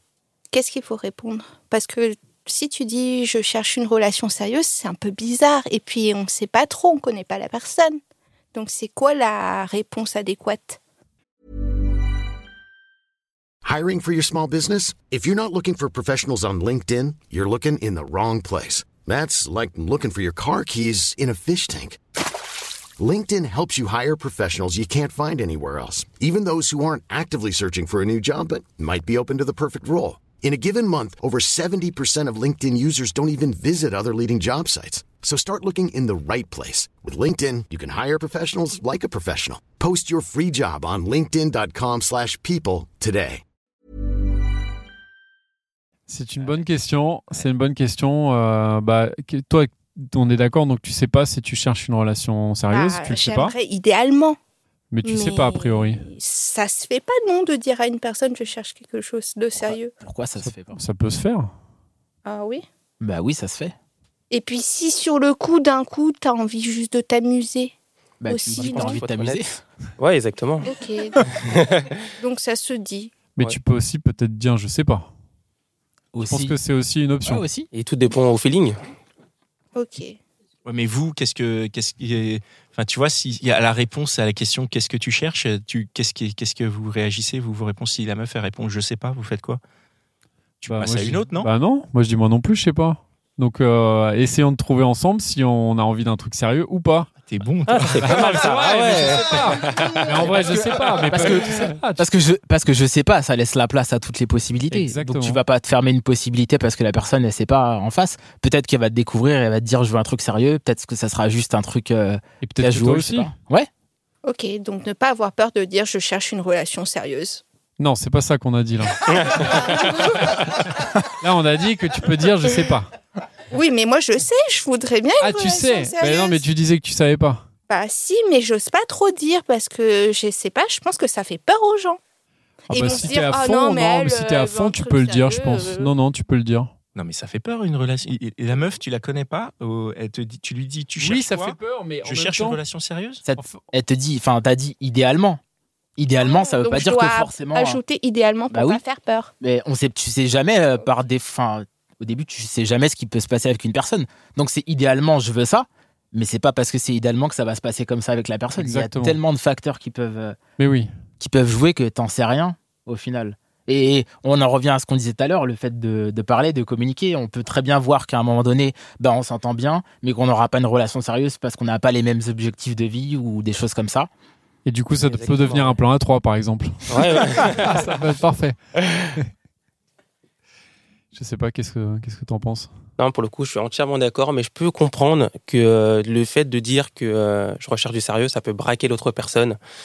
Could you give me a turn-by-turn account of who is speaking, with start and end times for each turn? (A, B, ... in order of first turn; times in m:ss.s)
0:00.5-0:08.0 A
0:08.5-0:10.8 A
0:13.6-0:22.0 B
0:23.0-0:43.4 B
0:46.1-0:53.6 C
0:52.7-0:54.4 A
0:54.9-0:56.0 C
0:55.0-0:59.9 A
0:59.7-1:00.8 D
1:00.4-1:01.5 C
1:02.2-1:02.6 A
1:03.0-1:03.7 D
1:04.3-1:07.7 A
1:08.2-1:09.6 D
1:08.3-1:09.0 A
1:08.5-1:09.4 E
1:10.0-1:10.7 E
1:10.6-1:11.2 A
1:11.3-1:11.9 E
1:12.2-1:13.2 A
1:13.3-1:15.1 C
1:16.1-1:16.6 D
1:16.2-1:17.4 C
1:17.2-1:17.7 D
1:17.7-1:18.8 E
1:19.7-1:20.2 A
1:20.6-1:29.6 F
1:30.6-1:31.5 F
1:30.6-1:37.1 C
1:37.3-1:38.3 F
1:37.7-1:40.6 E
1:38.0-1:42.0 C
1:41.1-1:53.7 D
1:44.7-1:45.4 C
1:52.4-1:53.3 C
1:54.2-1:57.4 A
1:57.8-2:02.9 C
2:03.5-2:06.4 A
2:05.2-2:07.4 C
2:07.7-2:12.0 A
2:12.7-2:15.9 A
2:12.7-2:16.7 C
2:17.0-2:23.2 F
2:21.0-2:22.6 C
2:23.2-2:25.4 D
2:23.4-2:23.6 C
2:26.0-2:27.8 D
2:26.2-2:29.3 A
2:28.5-2:28.8 D
2:29.4-2:40.4 D
2:38.5-2:39.2 C
2:40.6-2:40.9 C
2:41.2-2:54.1 D
2:54.6-2:58.6 C
2:55.0-2:55.8 E
2:56.9-2:57.8 E
3:01.1-3:02.7 C
3:03.0-3:09.6 E